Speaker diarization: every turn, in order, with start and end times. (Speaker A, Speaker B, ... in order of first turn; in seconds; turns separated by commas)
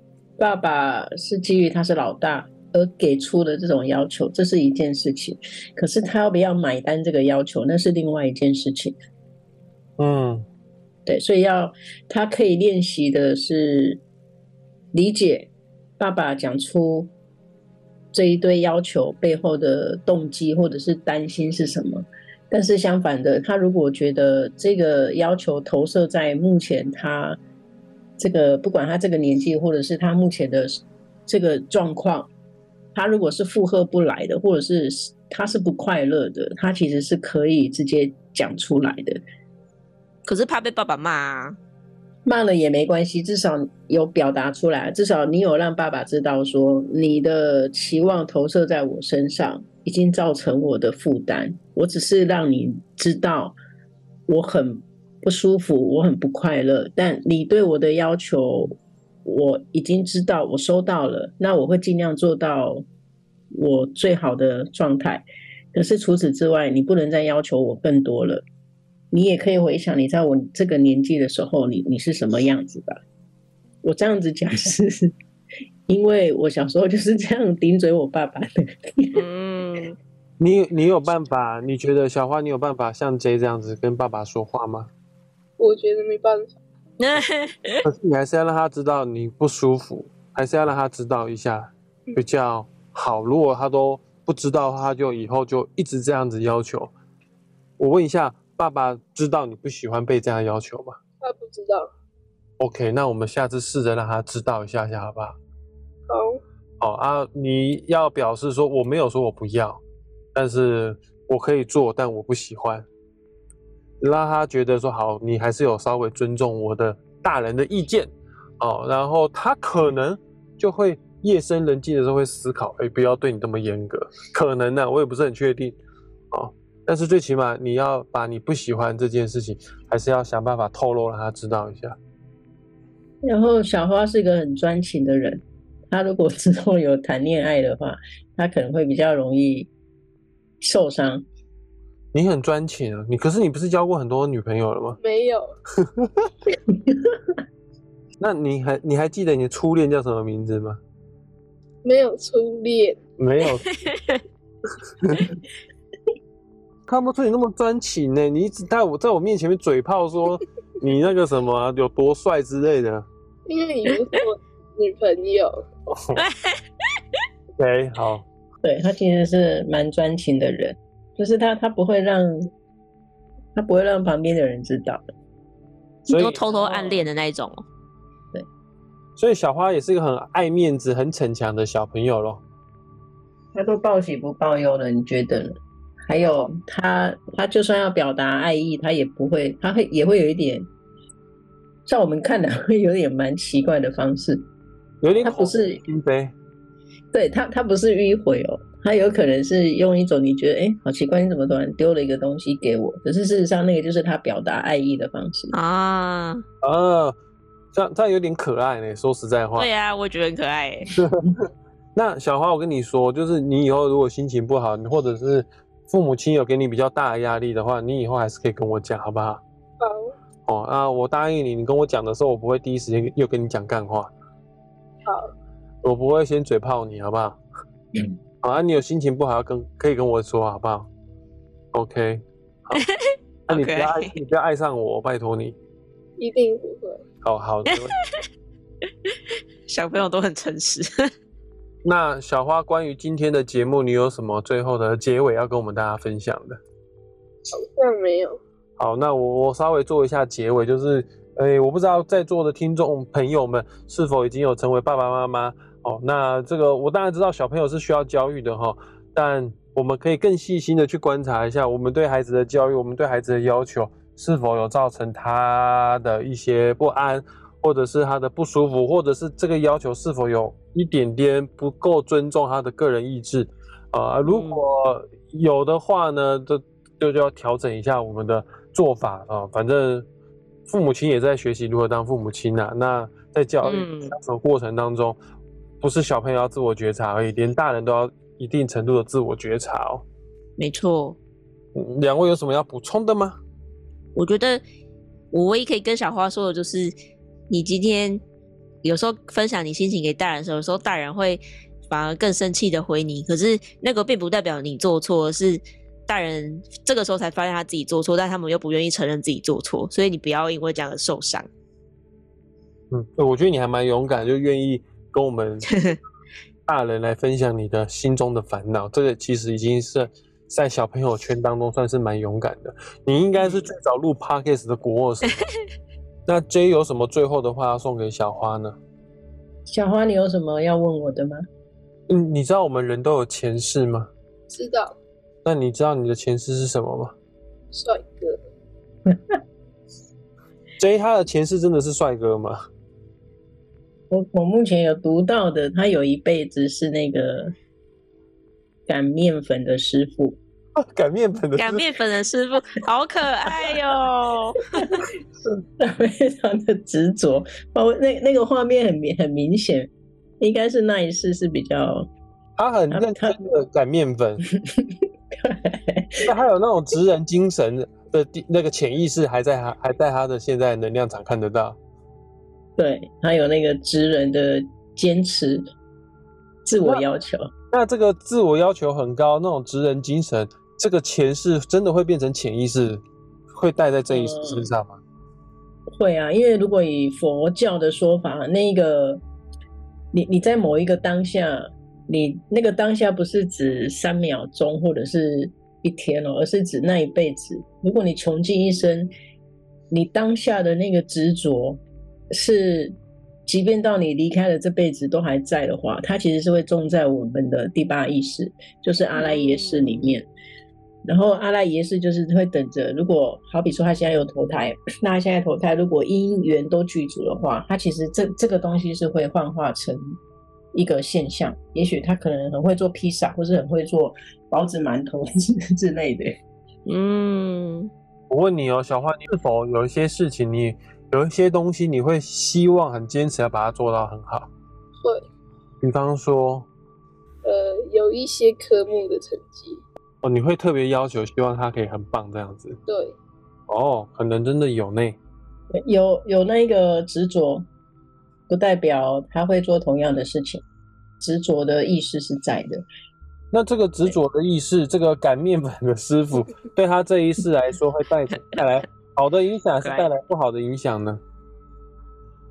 Speaker A: 0.4-9.0, Speaker B: 10.0-10.5, Speaker A: 11.1-14.0, Speaker A: 14.9-17.1, Speaker A: 18.1-27.4, Speaker A: 28.2-32.3, Speaker A: 33.0-39.2, Speaker C: 40.2-41.6, Speaker A: 42.3-53.6, Speaker A: 54.3-62.9, Speaker A: 63.5-68.4, Speaker A: 69.1-73.0, Speaker A: 73.8-75.1, Speaker A: 75.9-79.3, Speaker C: 79.2-80.0, Speaker B: 80.4-84.9, Speaker D: 85.6-86.6, Speaker C: 87.0-87.8, Speaker B: 87.8-96.9, Speaker B: 97.8-101.0, Speaker D: 101.2-101.9, Speaker B: 102.6-105.4, Speaker D: 106.1-106.4, Speaker B: 106.8-109.8, Speaker B: 110.3-112.9, Speaker B: 114.0-125.8, Speaker B: 126.3-132.0, Speaker A: 133.2-139.7, Speaker A: 140.6-141.3, Speaker B: 142.1-145.0, Speaker D: 145.0-145.6, Speaker B: 145.8-146.3, Speaker A: 146.7-147.1, Speaker B: 148.2-150.8, Speaker D: 151.8-153.0, Speaker B: 153.2-153.7, Speaker C: 153.7-154.2, Speaker B: 155.0-155.3, Speaker B: 156.9-163.1, Speaker D: 163.5-165.6, Speaker B: 165.9-166.2, Speaker C: 166.2-166.6, Speaker B: 167.6-168.2, Speaker A: 168.6-172.5, Speaker A: 173.6-175.0, Speaker C: 176.1-177.6, Speaker B: 176.1-176.4, Speaker A: 176.5-177.1, Speaker B: 179.2-182.4, Speaker A: 183.5-190.7, Speaker A: 191.9-194.5, Speaker B: 195.0-196.3, Speaker A: 195.2-195.8, Speaker A: 197.1-205.5, Speaker C: 205.5-206.4, Speaker B: 206.6-207.2, Speaker B: 207.7-209.7, Speaker C: 209.6-210.9, Speaker B: 211.0-211.3, Speaker B: 211.9-219.4, Speaker D: 219.8-220.2, Speaker B: 220.5-224.1, Speaker D: 225.1-225.3, Speaker B: 225.8-227.4, Speaker B: 228.4-230.9, Speaker B: 231.7-232.8, Speaker C: 233.5-234.1, Speaker B: 233.5-235.6, Speaker D: 236.2-237.0, Speaker B: 237.2-238.0, Speaker C: 239.7-241.1, Speaker B: 241.8-246.6, Speaker D: 247.5-248.4, Speaker B: 248.8-280.1, Speaker C: 274.2-274.6, Speaker B: 280.7-285.2, Speaker C: 283.6-284.1, Speaker B: 285.8-290.1, Speaker C: 290.6-291.2, Speaker B: 291.7-293.4, Speaker C: 294.1-294.6, Speaker C: 295.3-296.9, Speaker C: 297.5-298.2, Speaker C: 298.8-311.5, Speaker B: 312.9-315.8, Speaker C: 315.7-316.0, Speaker B: 316.7-325.4, Speaker B: 326.3-328.8, Speaker A: 329.7-331.5, Speaker B: 332.1-334.1, Speaker D: 334.5-335.0, Speaker B: 335.4-337.1, Speaker D: 337.7-338.4, Speaker B: 340.8-342.6, Speaker A: 344.1-347.5, Speaker A: 348.9-350.4, Speaker B: 350.8-351.9, Speaker C: 351.6-355.0, Speaker A: 354.8-362.1, Speaker B: 362.6-364.4, Speaker A: 362.9-363.6, Speaker A: 364.8-366.3, Speaker B: 366.3-371.8, Speaker A: 372.8-375.7, Speaker A: 376.6-377.5, Speaker B: 377.7-383.0, Speaker B: 383.5-385.0, Speaker A: 384.1-384.7, Speaker A: 386.0-389.2, Speaker A: 390.1-399.1, Speaker A: 399.9-401.8, Speaker A: 402.3-403.0, Speaker A: 403.5-410.3, Speaker C: 409.1-410.1, Speaker A: 411.1-420.2, Speaker A: 420.7-426.4, Speaker C: 426.9-427.9, Speaker B: 428.3-434.5, Speaker B: 435.8-436.7, Speaker D: 437.4-439.8, Speaker B: 440.2-442.8, Speaker D: 442.9-443.2, Speaker B: 443.7-445.2, Speaker A: 445.8-447.7, Speaker A: 448.5-450.6, Speaker A: 451.2-452.8, Speaker B: 453.5-461.2